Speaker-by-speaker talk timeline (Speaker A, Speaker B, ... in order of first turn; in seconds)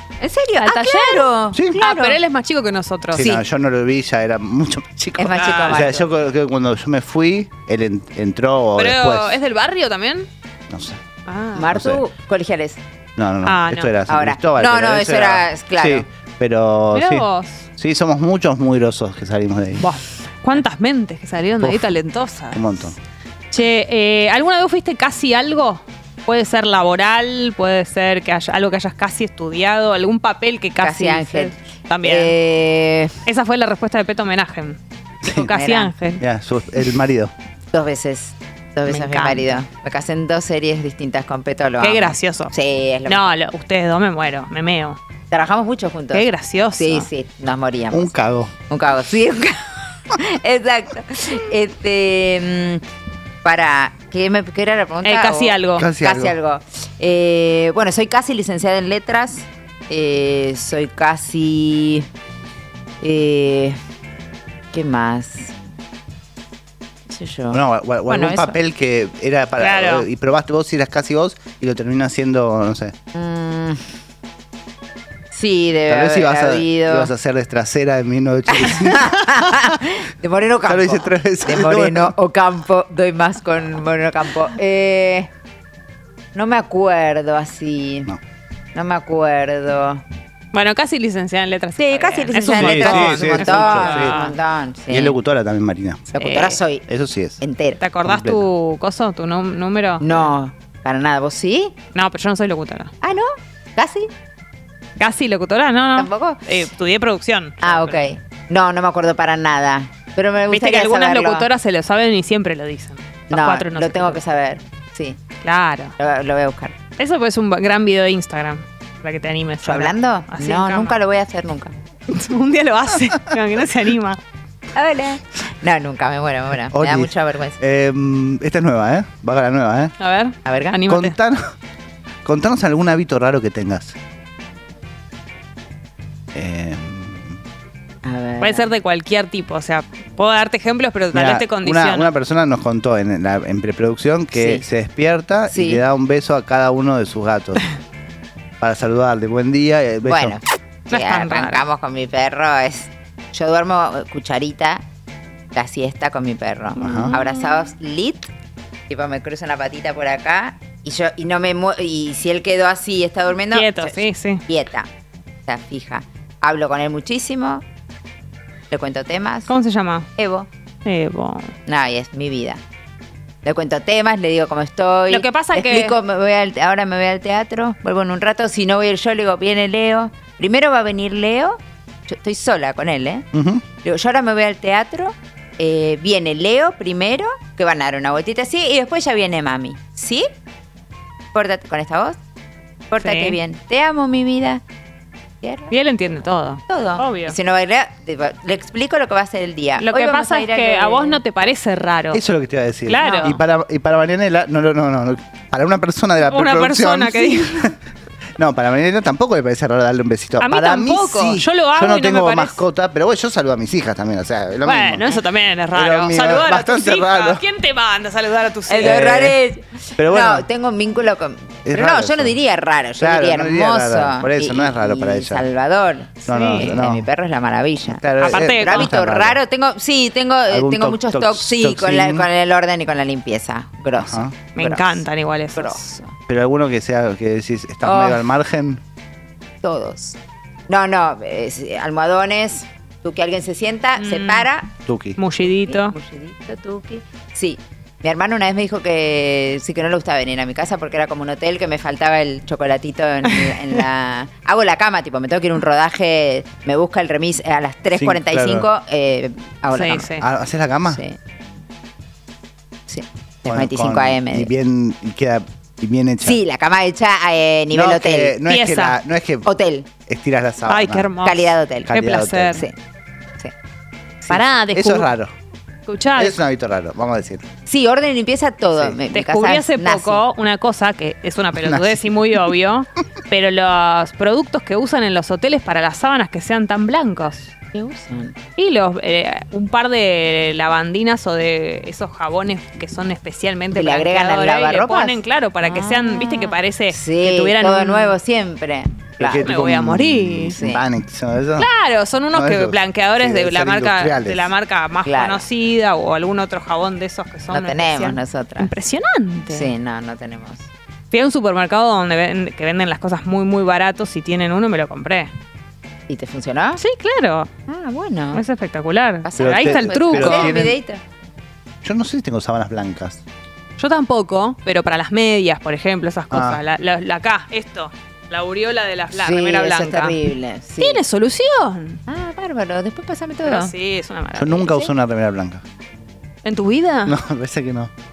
Speaker A: 0.2-2.2, 3.1-3.4, 5.2-6.1, 11.5-12.8, 14.1-16.1, 30.8-33.2, 35.5-35.9, 37.7-43.3, 45.3-48.1, 48.7-52.8, 53.4-62.1, 63.0-63.8, 64.7-65.5, 67.1-68.6, 73.1-73.8, 75.3-77.1, 78.5-85.3, 86.3-88.1, 88.7-90.0, 91.8-95.2, 96.1-96.8, 97.4-97.8, 100.0-101.8, 103.0-104.1, 106.0-106.4, 107.6-111.5, 113.3-115.2, 116.0-116.7, 119.6-121.7, 124.7-127.6, 130.4-130.8, 138.0-138.7, 144.3-144.6, 145.5-145.8, 150.0-154.8, 155.5-158.3, 158.9-164.9, 165.4-167.6, 168.7-169.5, 170.2-170.5, 171.7-172.6, 173.4-183.2, 183.8-190.3, 191.3-192.2, 192.9-194.6, 195.4-195.7, 196.7-201.2, 203.0-203.3, 218.7-236.2, 237.8-238.2, 239.6-240.2, 240.7-244.7, 245.4-260.2, 260.9-261.2, 262.9-264.5, 266.2-268.4, 269.4-269.9, 271.2-271.9, 277.6-280.2, 287.7-288.4, 293.7-299.5, 300.5-300.8, 305.0-305.4, 307.5-308.7, 309.5-310.6, 316.1-316.8, 317.7-318.4, 319.2-321.0, 329.1-331.0, 332.1-333.7
Speaker B: 0.6-3.4, 5.4-5.8, 8.8-10.3, 11.3-11.7, 13.4-13.9, 16.9-17.6, 19.8-22.7, 23.5-32.3, 33.2-36.2, 38.9-39.6, 41.8-42.5, 43.1-45.0, 46.1-47.1, 55.0-55.9, 69.6-70.0, 90.5-94.3, 96.2-96.6, 97.8-100.3, 101.9-102.9, 105.0-108.0, 110.5-114.2, 115.4-115.9, 117.0-121.0, 122.1-124.2, 130.0-131.1, 138.4-142.1, 150.9-151.6, 156.8-157.3, 163.5-164.4, 169.5-170.1, 170.8-171.5, 175.1-176.0, 193.0-193.4, 195.7-197.4, 199.8-202.2, 202.9-203.4, 206.2-207.8, 210.4-212.6, 214.6-219.3, 226.3-226.8, 228.2-229.0, 234.6-235.9, 244.0-244.5, 245.2-245.9, 259.7-260.2, 268.4-269.0, 270.6-272.6, 274.3-275.1, 275.9-276.4, 279.1-287.5, 288.6-298.2, 299.4-300.6, 301.6-309.7, 311.1-315.3, 316.8-317.5, 318.3-320.6, 323.8-330.2, 330.8-332.0, 333.4-334.9, 336.4-337.2
Speaker C: 1.5-1.8, 3.1-9.4, 10.7-11.0, 11.7-12.0, 13.2-19.9, 21.6-21.9, 22.5-22.9, 35.2-35.5, 36.2-37.3, 47.9-48.5, 55.8-56.4, 67.5-72.9, 75.9-79.8, 80.7-82.1, 92.5-94.2, 94.9-96.1, 96.9-97.4, 98.0-98.5, 126.7-129.9, 130.9-131.5, 132.2-134.0, 136.3-137.4, 141.1-147.6, 148.6-150.4, 156.8-157.1, 183.3-183.6, 202.1-207.7, 208.4-215.0, 215.7-217.4, 218.8-219.4, 220.0-220.5, 221.6-222.3, 223.0-225.5, 226.2-227.1, 227.8-229.4, 230.5-232.3, 234.1-234.3, 236.3-238.8, 244.9-245.2, 257.9-258.7, 260.2-261.0, 263.4-266.4, 267.7-269.5, 270.1-271.1, 271.9-272.6, 274.7-275.3, 276.1-277.4, 281.6-282.0, 299.2-301.7, 302.3-304.5, 319.4-320.8, 321.8-323.2, 326.3-326.6, 334.3-335.6, 337.1-337.9